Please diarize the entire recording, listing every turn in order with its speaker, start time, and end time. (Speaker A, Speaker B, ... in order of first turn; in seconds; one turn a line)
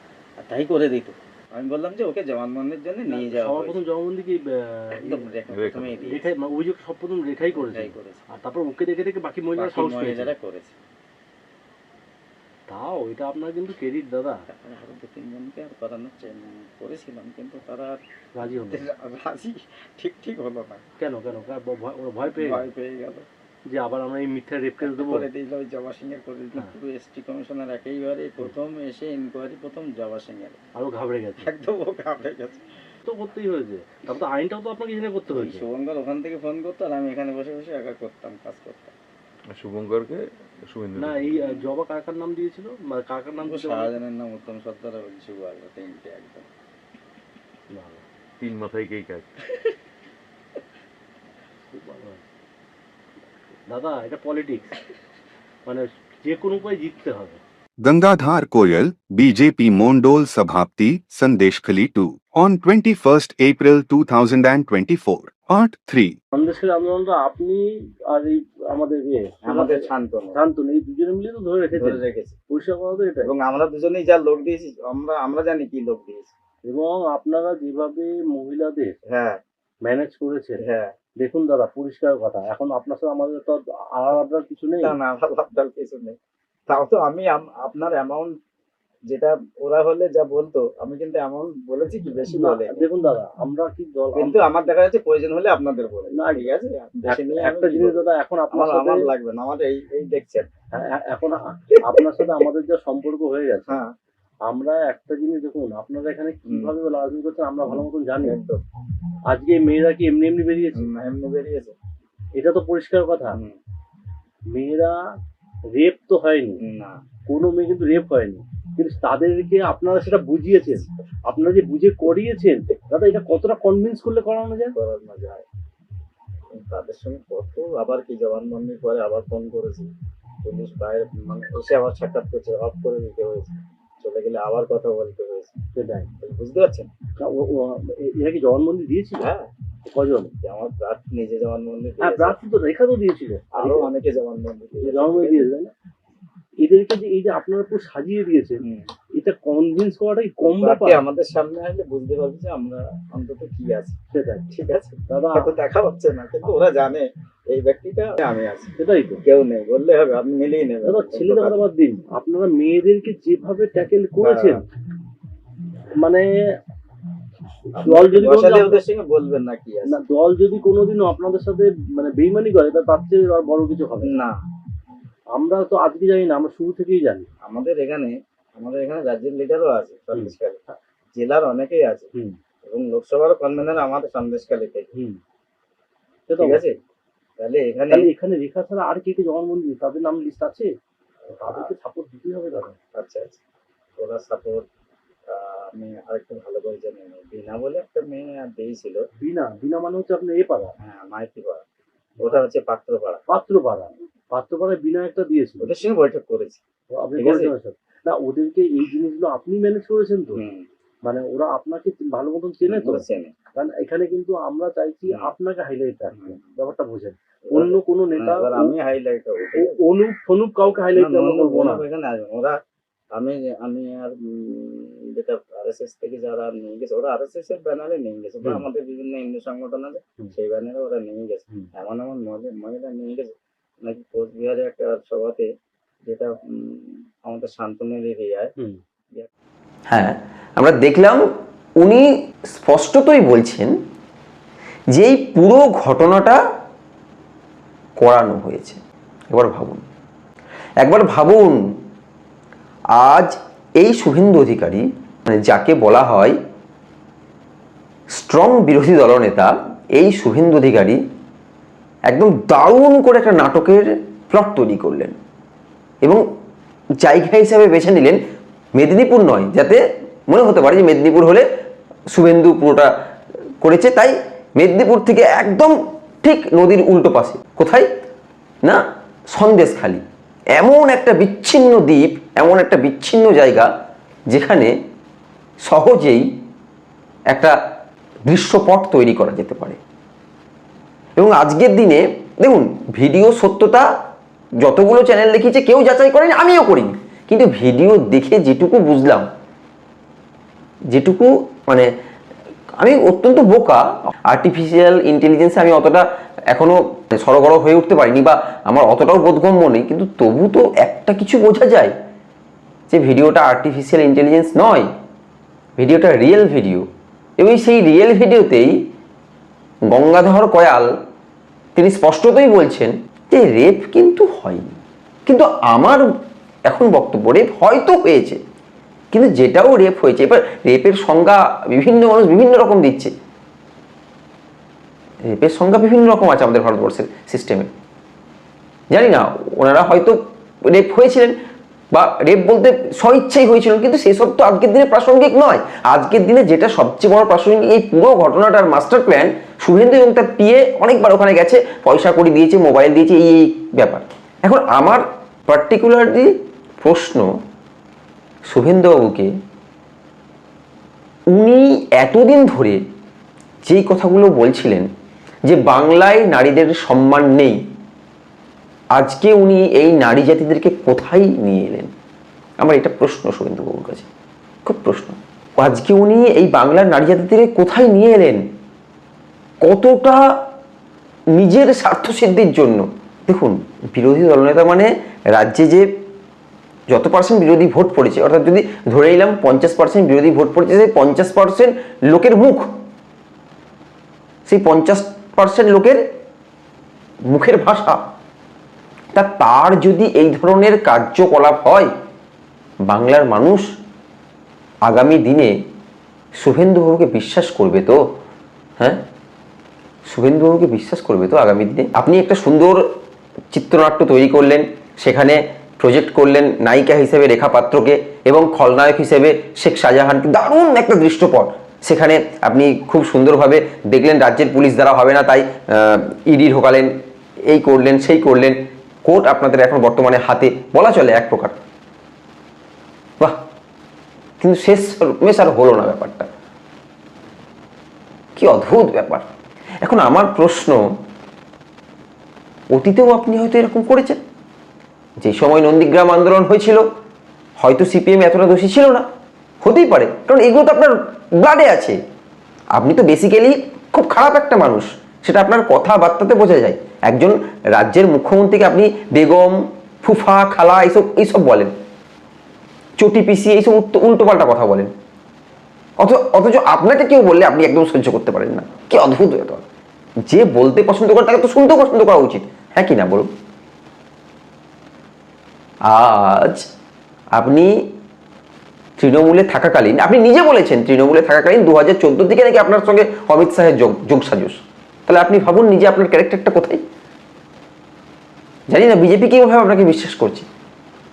Speaker A: 0.4-3.8
Speaker B: 3.1-5.2
Speaker A: 4.9-6.3
Speaker C: 5.5-6.1
Speaker B: 6.1-10.3
Speaker A: 7.5-8.2
Speaker A: 9.6-10.8
Speaker B: 12.7-14.4
Speaker A: 14.5-18.0
Speaker B: 18.3-18.8
Speaker A: 18.7-20.8
Speaker B: 21.0-22.7
Speaker A: 22.4-23.2
Speaker B: 23.7-25.3
Speaker A: 24.8-30.6
Speaker B: 30.8-31.5
Speaker A: 31.4-32.6
Speaker B: 33.0-35.6
Speaker A: 35.3-38.9
Speaker C: 39.5-41.4
Speaker B: 41.0-43.9
Speaker A: 43.4-46.5
Speaker B: 47.7-48.0
Speaker C: 48.4-49.3
Speaker B: 51.7-52.2
Speaker B: 53.7-54.8
Speaker B: 55.6-57.4
Speaker D: 57.8-66.2
Speaker B: 66.3-73.3
Speaker A: 69.4-70.3
Speaker A: 71.8-72.3
Speaker A: 73.2-76.3
Speaker B: 76.6-79.0
Speaker A: 79.1-79.4
Speaker B: 79.8-80.6
Speaker A: 80.6-80.9
Speaker B: 81.2-85.0
Speaker A: 84.8-86.2
Speaker A: 86.7-88.3
Speaker A: 89.1-92.8
Speaker B: 92.3-94.4
Speaker A: 94.1-100.5
Speaker B: 96.1-96.5
Speaker B: 97.1-99.0
Speaker B: 100.7-103.8
Speaker A: 103.7-103.9
Speaker B: 104.5-108.4
Speaker A: 106.5-106.7
Speaker A: 107.7-108.6
Speaker B: 109.3-110.9
Speaker A: 110.7-111.7
Speaker B: 112.3-113.4
Speaker A: 113.3-113.6
Speaker B: 114.5-115.0
Speaker B: 115.7-116.6
Speaker A: 116.6-117.0
Speaker B: 117.3-124.7
Speaker A: 124.7-125.4
Speaker A: 126.5-129.9
Speaker A: 130.4-135.6
Speaker B: 135.7-136.1
Speaker A: 136.2-136.9
Speaker B: 137.2-139.3
Speaker A: 139.2-139.5
Speaker B: 139.8-140.3
Speaker A: 140.4-142.4
Speaker B: 142.0-143.9
Speaker A: 143.5-145.5
Speaker B: 144.8-145.7
Speaker B: 146.6-148.6
Speaker A: 148.6-148.9
Speaker B: 149.1-151.0
Speaker A: 150.4-154.0
Speaker B: 154.1-154.5
Speaker A: 154.5-158.7
Speaker B: 155.1-155.5
Speaker B: 158.8-159.2
Speaker A: 159.2-161.6
Speaker B: 160.8-164.6
Speaker A: 164.2-164.6
Speaker B: 167.7-168.8
Speaker A: 167.7-170.0
Speaker B: 169.9-174.2
Speaker A: 174.0-174.3
Speaker B: 175.3-177.3
Speaker A: 177.4-180.6
Speaker A: 181.1-182.1
Speaker A: 182.7-184.9
Speaker B: 186.3-186.6
Speaker A: 186.4-186.7
Speaker A: 187.4-188.1
Speaker B: 187.9-190.7
Speaker B: 191.3-192.8
Speaker A: 192.9-193.4
Speaker A: 194.0-194.7
Speaker A: 195.3-199.0
Speaker B: 199.2-200.7
Speaker A: 200.8-201.6
Speaker A: 202.2-203.2
Speaker B: 203.3-205.7
Speaker A: 205.6-206.6
Speaker B: 207.0-210.4
Speaker A: 207.2-207.5
Speaker A: 210.3-210.6
Speaker B: 211.0-213.0
Speaker A: 212.6-213.3
Speaker B: 213.5-218.7
Speaker A: 216.1-216.4
Speaker A: 217.5-219.8
Speaker B: 219.5-221.8
Speaker A: 220.9-222.5
Speaker A: 223.1-233.3
Speaker A: 233.8-235.5
Speaker A: 236.1-238.5
Speaker E: 239.9-241.2
Speaker E: 241.8-243.7
Speaker E: 244.9-246.4
Speaker E: 248.0-248.8
Speaker E: 249.3-249.8
Speaker E: 250.8-251.6
Speaker E: 253.0-256.4
Speaker E: 258.1-261.0
Speaker E: 262.1-265.1
Speaker E: 267.0-268.2
Speaker E: 268.7-271.4
Speaker E: 272.1-272.9
Speaker E: 273.6-277.9
Speaker E: 279.3-280.0
Speaker E: 280.5-283.7
Speaker E: 284.3-284.7
Speaker E: 285.6-286.2
Speaker E: 288.3-289.8
Speaker E: 291.2-293.9
Speaker E: 294.6-299.3
Speaker E: 300.9-301.9
Speaker E: 302.8-311.9
Speaker E: 312.9-314.9
Speaker E: 315.8-316.8
Speaker E: 317.4-318.7
Speaker E: 319.9-320.9
Speaker E: 321.8-326.1
Speaker E: 326.7-328.4
Speaker E: 329.1-333.1
Speaker E: 335.2-337.7
Speaker E: 338.9-340.2
Speaker E: 340.7-341.3
Speaker E: 341.9-357.3
Speaker E: 358.5-359.3
Speaker E: 361.3-362.8
Speaker E: 363.6-364.9
Speaker E: 365.4-367.6
Speaker E: 368.9-371.9
Speaker E: 372.6-374.1
Speaker E: 374.6-378.4
Speaker E: 379.6-380.2
Speaker E: 381.3-385.9
Speaker E: 386.9-392.7
Speaker E: 394.5-396.0
Speaker E: 397.3-398.0
Speaker E: 399.1-401.9
Speaker E: 402.9-403.7
Speaker E: 404.9-405.5
Speaker E: 406.4-408.0
Speaker E: 410.1-412.8
Speaker E: 413.5-426.9
Speaker E: 427.5-431.5
Speaker E: 434.4-436.3
Speaker E: 438.4-439.2
Speaker E: 439.8-440.8
Speaker E: 442.7-444.2
Speaker E: 445.2-446.8
Speaker E: 447.6-449.0
Speaker E: 449.6-452.0
Speaker E: 452.7-461.7
Speaker E: 463.0-464.9
Speaker E: 466.0-469.6
Speaker E: 470.3-473.3
Speaker E: 475.9-476.6
Speaker E: 477.4-477.7
Speaker E: 479.0-486.8
Speaker E: 488.7-490.5